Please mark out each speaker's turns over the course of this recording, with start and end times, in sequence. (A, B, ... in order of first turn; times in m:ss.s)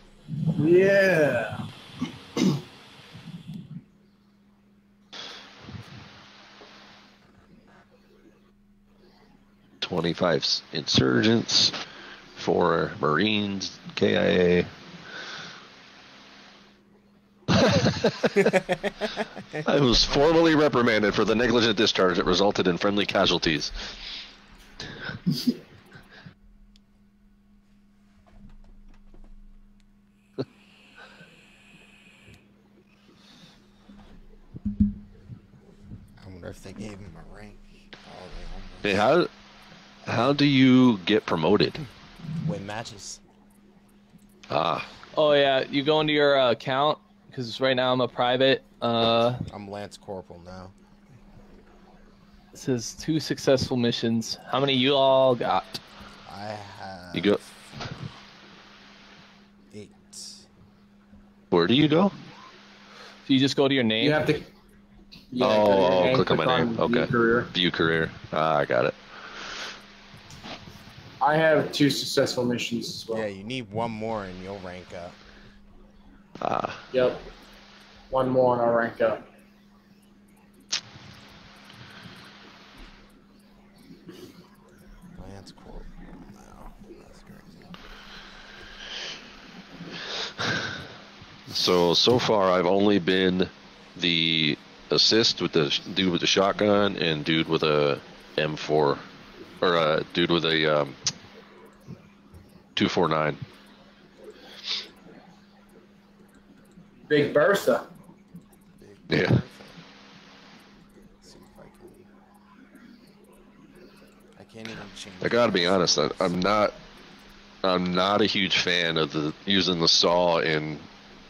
0:00.6-0:01.6 A
0:09.8-0:11.7 B
0:12.4-0:14.7 B
0:17.5-0:18.6 B
0:19.6-0:23.7 B
0:36.2-0:39.1 C
0:38.8-0:39.3 B
0:40.1-0:41.8 B
0:40.1-0:40.4 C
0:42.4-0:43.2 C
0:44.5-0:44.9 B
0:45.2-0:49.4 D
0:49.5-0:50.7 C
0:52.5-0:55.8 D
0:56.3-0:58.0 C
0:57.1-0:57.4 B
0:59.7-1:00.5 C
1:01.5-1:02.1 B
1:03.2-1:04.3 D
1:04.0-1:04.5 A
1:05.3-1:07.5 A
1:05.4-1:09.5 B
1:11.2-1:13.3 A
1:13.1-1:15.2 C
1:16.4-1:16.8 B
1:16.9-1:17.3 A
1:18.1-1:19.3 A
1:25.2-1:27.8 C
1:31.5-1:39.0 B
1:39.6-1:41.0 B
1:42.8-1:43.4 B
1:47.1-1:47.9 A
1:48.8-1:49.8 C
1:49.1-1:49.4 B
1:51.2-1:52.1 C
1:54.4-1:56.4 C
1:55.2-1:56.7 B
1:57.6-2:00.9 B